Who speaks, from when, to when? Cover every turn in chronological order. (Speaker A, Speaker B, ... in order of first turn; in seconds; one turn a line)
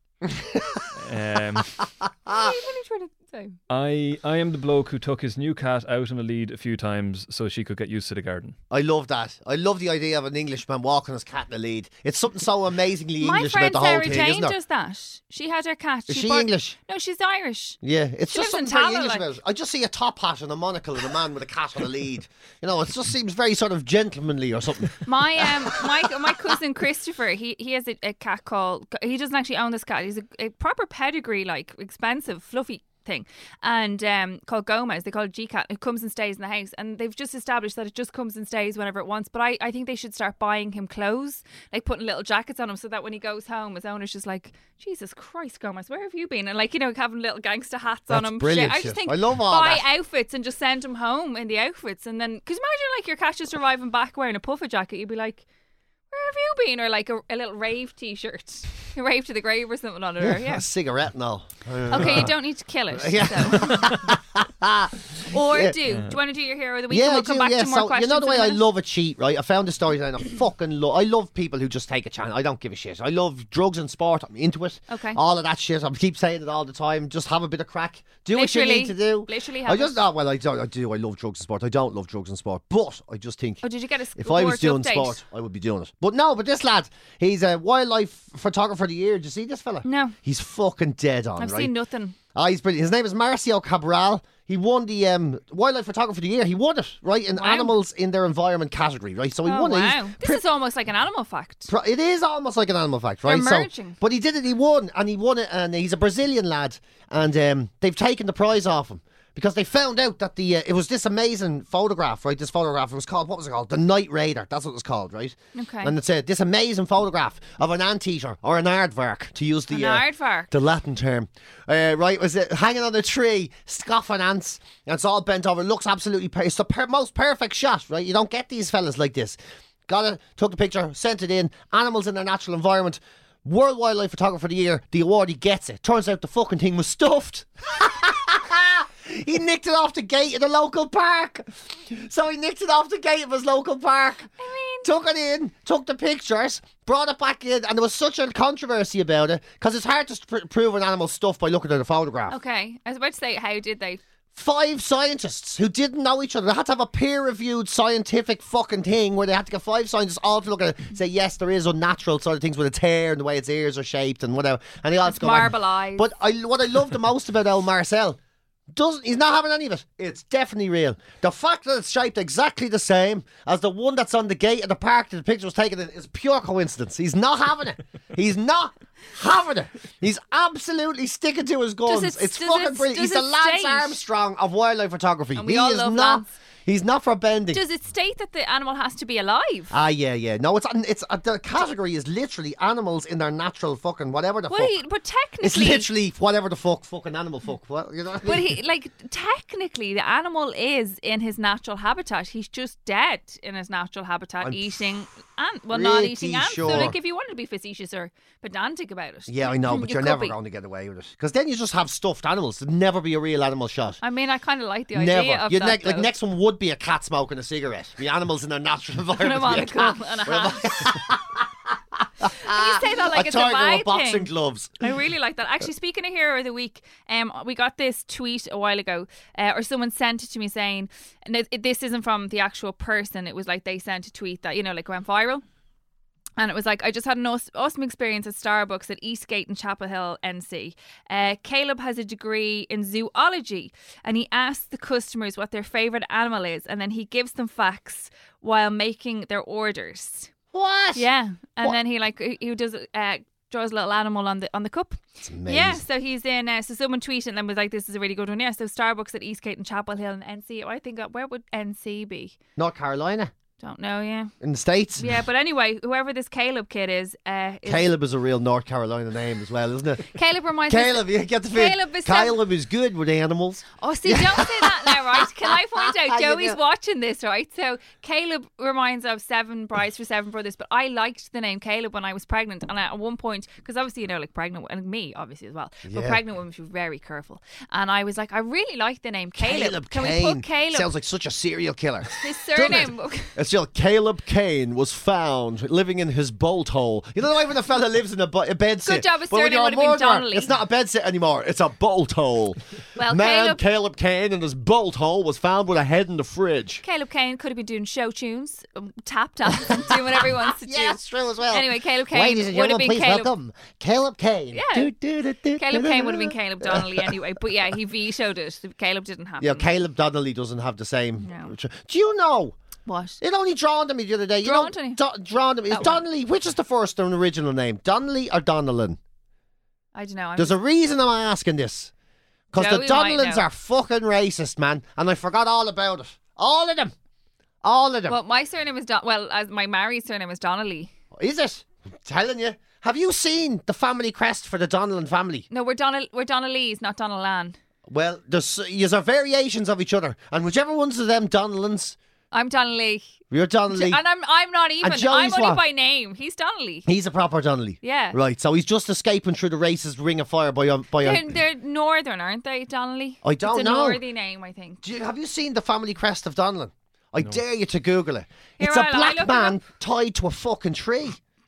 Speaker A: 0.3-0.9
Speaker B: 0.9-1.8
Speaker A: 2.3-2.5
Speaker C: 2.3-3.5
Speaker B: 3.7-8.6
Speaker A: 8.7-14.6
Speaker C: 13.2-17.8
Speaker A: 16.1-16.7
Speaker A: 17.8-25.7
Speaker C: 18.3-19.3
Speaker C: 25.0-55.4
Speaker A: 48.1-49.8
Speaker C: 56.1-60.6
Speaker A: 60.2-62.4
Speaker C: 61.9-64.1
Speaker A: 62.9-65.8
Speaker C: 65.2-68.6
Speaker A: 66.9-83.6
Speaker C: 74.9-75.2
Speaker C: 78.3-80.0
Speaker C: 83.6-85.2
Speaker A: 84.2-91.7
Speaker C: 89.8-90.2
Speaker C: 91.4-92.2
Speaker A: 92.3-100.4
Speaker C: 97.3-97.7
Speaker C: 99.4-101.7
Speaker A: 101.7-129.4
Speaker C: 103.2-104.0
Speaker C: 115.5-115.9
Speaker C: 119.7-120.5
Speaker A: 129.9-144.3
Speaker C: 144.4-144.9
Speaker A: 144.8-152.3
Speaker C: 152.3-154.0
Speaker A: 154.3-168.2
Speaker C: 165.0-166.1
Speaker A: 168.7-187.6
Speaker C: 181.8-184.0
Speaker C: 185.3-186.3
Speaker C: 187.5-189.7
Speaker A: 189.7-194.7
Speaker C: 194.5-195.9
Speaker A: 195.4-198.6
Speaker C: 198.2-210.3
Speaker A: 204.4-204.7
Speaker A: 205.7-206.9
Speaker A: 209.3-214.0
Speaker C: 214.0-216.1
Speaker A: 214.9-224.8
Speaker C: 219.2-220.9
Speaker C: 222.3-235.4
Speaker C: 236.4-250.3
Speaker A: 250.5-251.0
Speaker C: 250.9-262.4
Speaker A: 255.2-255.8
Speaker A: 262.6-263.3
Speaker C: 263.6-264.3
Speaker A: 264.4-265.2
Speaker C: 265.0-267.9
Speaker A: 267.6-270.1
Speaker C: 270.1-272.4
Speaker A: 270.7-276.6
Speaker C: 273.8-290.9
Speaker A: 285.8-286.2
Speaker A: 289.4-306.8
Speaker C: 292.2-293.3
Speaker C: 298.8-300.5
Speaker C: 303.0-303.6
Speaker C: 306.8-313.3
Speaker A: 309.6-317.1
Speaker C: 314.5-314.9
Speaker C: 315.5-319.7
Speaker A: 319.4-322.6
Speaker C: 321.2-321.5
Speaker C: 322.9-323.2
Speaker A: 323.2-329.0
Speaker C: 324.4-325.0
Speaker C: 325.7-326.0
Speaker C: 329.9-330.6
Speaker A: 330.4-331.9
Speaker A: 332.5-336.9
Speaker C: 332.5-333.4
Speaker A: 337.6-338.2
Speaker C: 338.1-340.9
Speaker A: 341.1-345.4
Speaker C: 345.5-347.6
Speaker A: 347.9-351.9
Speaker C: 352.3-353.1
Speaker A: 353.3-354.0
Speaker C: 353.7-356.9
Speaker A: 354.8-355.6
Speaker A: 356.9-361.3
Speaker C: 357.8-358.2
Speaker C: 361.0-364.8
Speaker A: 363.2-364.0
Speaker A: 364.8-371.2
Speaker C: 368.6-369.6